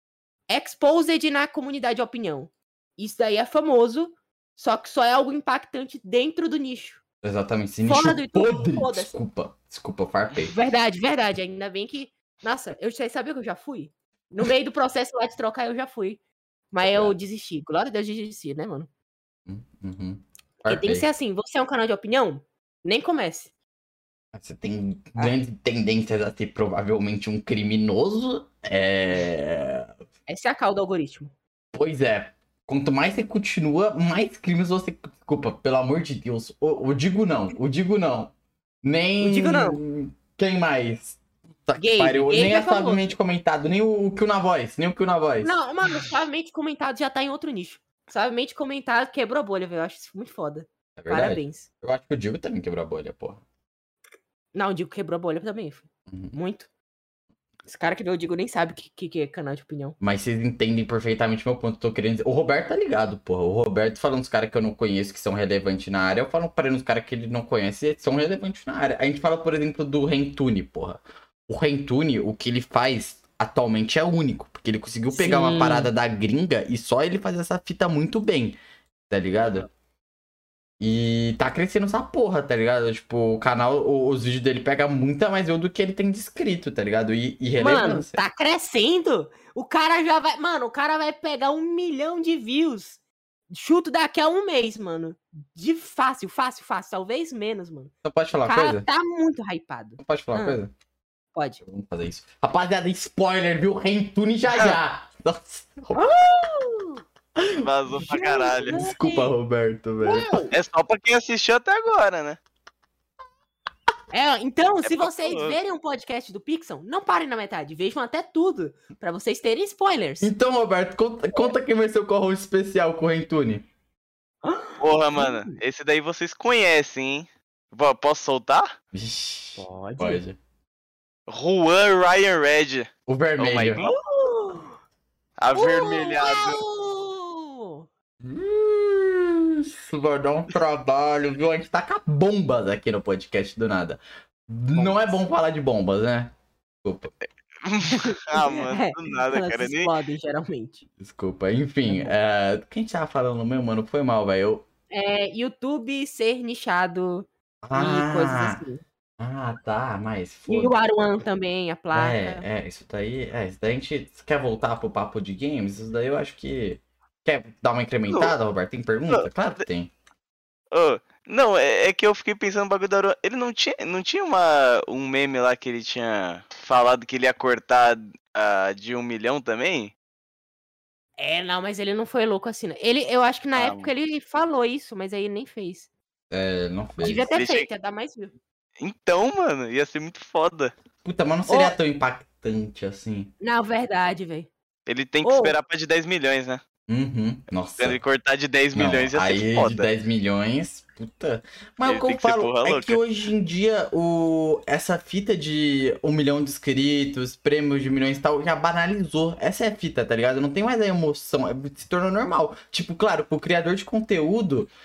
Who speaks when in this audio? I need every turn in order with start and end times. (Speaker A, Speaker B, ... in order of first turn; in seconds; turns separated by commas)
Speaker A: 0.5-7.0, Speaker B: 7.2-10.5, Speaker A: 7.8-9.1, Speaker A: 10.5-16.2, Speaker A: 16.7-18.9, Speaker B: 16.8-17.1, Speaker B: 19.5-21.1, Speaker A: 20.7-23.5, Speaker B: 24.3-29.9, Speaker A: 30.3-31.3, Speaker B: 31.7-45.5, Speaker A: 39.2-39.8, Speaker A: 41.8-43.1, Speaker A: 45.4-51.7, Speaker B: 51.0-53.4, Speaker A: 54.5-56.7, Speaker B: 56.1-56.4, Speaker A: 57.6-60.0, Speaker B: 60.0-78.5, Speaker A: 75.1-75.9, Speaker B: 79.1-79.7, Speaker B: 80.8-88.2, Speaker A: 87.6-97.9, Speaker B: 98.0-98.8, Speaker A: 98.5-100.6, Speaker B: 100.0-100.7, Speaker A: 101.3-101.6, Speaker B: 101.6-106.2, Speaker A: 106.0-107.0, Speaker B: 107.3-108.0, Speaker C: 107.6-108.8, Speaker A: 108.1-109.3, Speaker B: 108.7-110.5, Speaker A: 110.0-110.5, Speaker C: 110.5-112.4, Speaker A: 114.1-120.3, Speaker C: 114.8-115.6, Speaker B: 120.2-123.7, Speaker A: 124.4-125.5, Speaker C: 124.8-128.7, Speaker B: 128.9-130.4, Speaker A: 129.6-130.2, Speaker C: 131.3-134.0, Speaker B: 133.1-133.8, Speaker A: 133.8-134.8, Speaker C: 135.4-136.6, Speaker A: 135.5-137.9, Speaker B: 138.2-146.3, Speaker A: 144.8-145.0, Speaker B: 146.8-147.1, Speaker C: 147.6-149.9, Speaker A: 147.9-150.8, Speaker B: 151.0-154.6, Speaker A: 151.9-152.1, Speaker A: 154.9-158.8, Speaker B: 157.6-158.6, Speaker B: 159.2-160.8, Speaker A: 160.5-162.4, Speaker B: 161.9-169.9, Speaker C: 169.1-169.6, Speaker C: 170.7-179.9, Speaker A: 181.2-185.9, Speaker C: 183.5-183.9, Speaker B: 186.3-187.3, Speaker A: 187.0-188.3, Speaker C: 187.3-187.7, Speaker C: 188.8-190.7, Speaker B: 191.0-193.3, Speaker A: 191.5-191.8, Speaker A: 193.4-194.5, Speaker C: 194.8-196.6, Speaker A: 195.2-195.5, Speaker B: 196.9-198.0, Speaker C: 197.8-199.9, Speaker B: 198.7-214.7, Speaker C: 201.8-203.0